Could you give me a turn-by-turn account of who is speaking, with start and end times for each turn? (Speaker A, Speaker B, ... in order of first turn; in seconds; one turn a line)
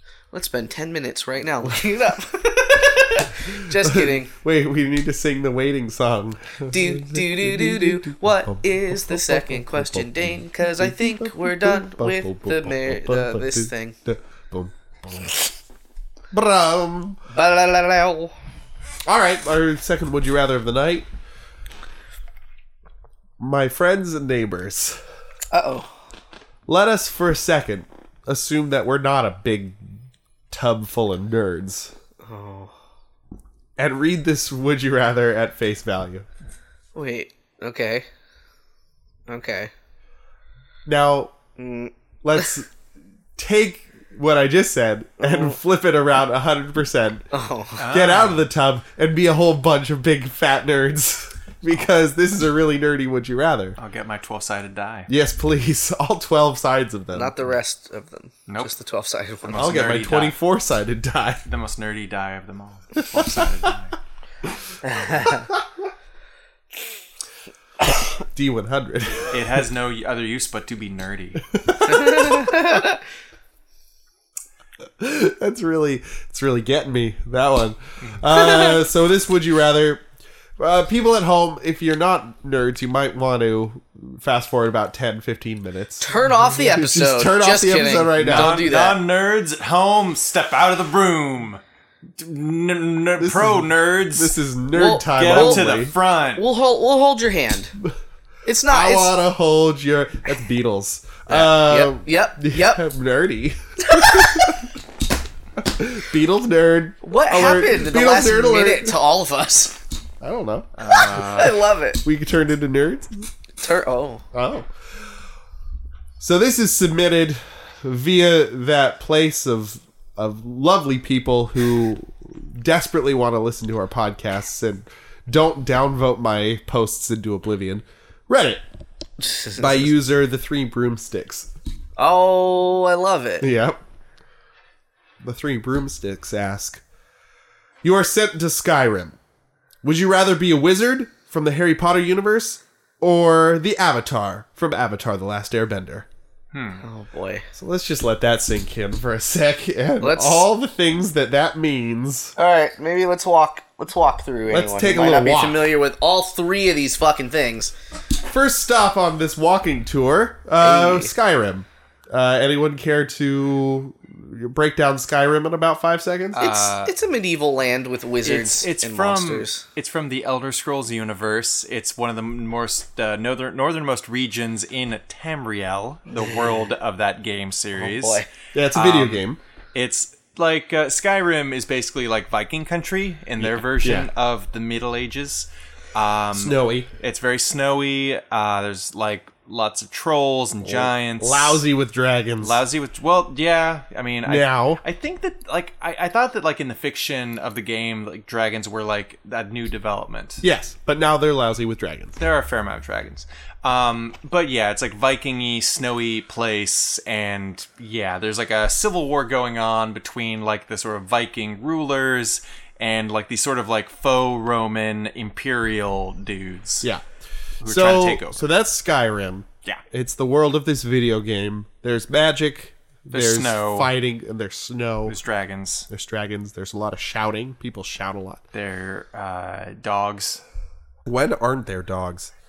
Speaker A: 0.3-4.3
Speaker B: 3.5-15.3
Speaker A: 6.7-13.9
Speaker B: 16.3-17.2
Speaker A: 17.3-18.3
Speaker B: 19.1-21.1
Speaker B: 23.4-25.0
Speaker A: 25.5-25.9
Speaker B: 26.7-31.9
Speaker A: 32.2-32.7
Speaker B: 33.8-36.2
Speaker A: 36.9-38.1
Speaker A: 39.3-39.7
Speaker B: 40.9-41.3
Speaker A: 41.6-42.5
Speaker B: 42.2-42.7
Speaker B: 43.4-47.3
Speaker A: 45.2-45.5
Speaker A: 47.3-47.8
Speaker C: 47.8-48.5
Speaker B: 47.9-53.8
Speaker C: 53.8-55.1
Speaker B: 55.1-57.4
Speaker A: 57.1-59.8
Speaker C: 59.5-60.4
Speaker B: 59.5-61.4
Speaker C: 61.5-64.0
Speaker B: 63.0-63.7
Speaker A: 64.8-65.5
Speaker B: 68.3-69.6
Speaker C: 69.3-71.4
Speaker B: 71.5-72.8
Speaker A: 71.8-73.0
Speaker B: 75.0-80.0
Speaker C: 78.0-78.2
Speaker A: 78.3-78.7
Speaker B: 80.6-88.7
Speaker A: 86.0-89.0
Speaker C: 88.2-91.6
Speaker C: 92.2-94.4
Speaker B: 93.2-95.9
Speaker A: 94.7-95.7
Speaker C: 95.1-96.4
Speaker A: 96.3-97.7
Speaker A: 98.5-99.1
Speaker B: 98.7-104.7
Speaker A: 101.3-102.8
Speaker A: 103.8-104.7
Speaker B: 105.6-109.0
Speaker A: 107.0-109.8
Speaker B: 110.2-110.7
Speaker C: 110.8-111.6
Speaker A: 110.9-112.0
Speaker B: 112.0-113.3
Speaker A: 113.6-114.2
Speaker B: 114.3-114.7
Speaker B: 116.2-128.6
Speaker A: 129.2-129.9
Speaker B: 129.6-131.5
Speaker A: 132.0-133.5
Speaker B: 133.4-133.8
Speaker B: 135.2-136.8
Speaker B: 137.8-139.2
Speaker B: 139.8-146.1
Speaker C: 146.5-146.8
Speaker A: 146.8-147.5
Speaker B: 147.5-152.3
Speaker A: 150.0-150.4
Speaker A: 152.3-157.7
Speaker B: 154.5-155.6
Speaker B: 158.2-166.4
Speaker A: 160.6-161.1
Speaker C: 166.3-166.9
Speaker A: 166.4-169.6
Speaker C: 168.2-191.6
Speaker A: 177.8-178.3
Speaker B: 178.5-179.4
Speaker B: 183.4-184.1
Speaker B: 186.3-186.9
Speaker B: 190.6-192.6
Speaker C: 192.4-200.4
Speaker B: 194.2-194.8
Speaker B: 200.4-202.2
Speaker C: 202.2-216.9
Speaker C: 217.6-218.4
Speaker B: 217.6-225.2
Speaker C: 223.1-223.9
Speaker C: 225.1-225.9
Speaker B: 225.9-228.4
Speaker C: 228.5-230.4
Speaker B: 231.0-232.3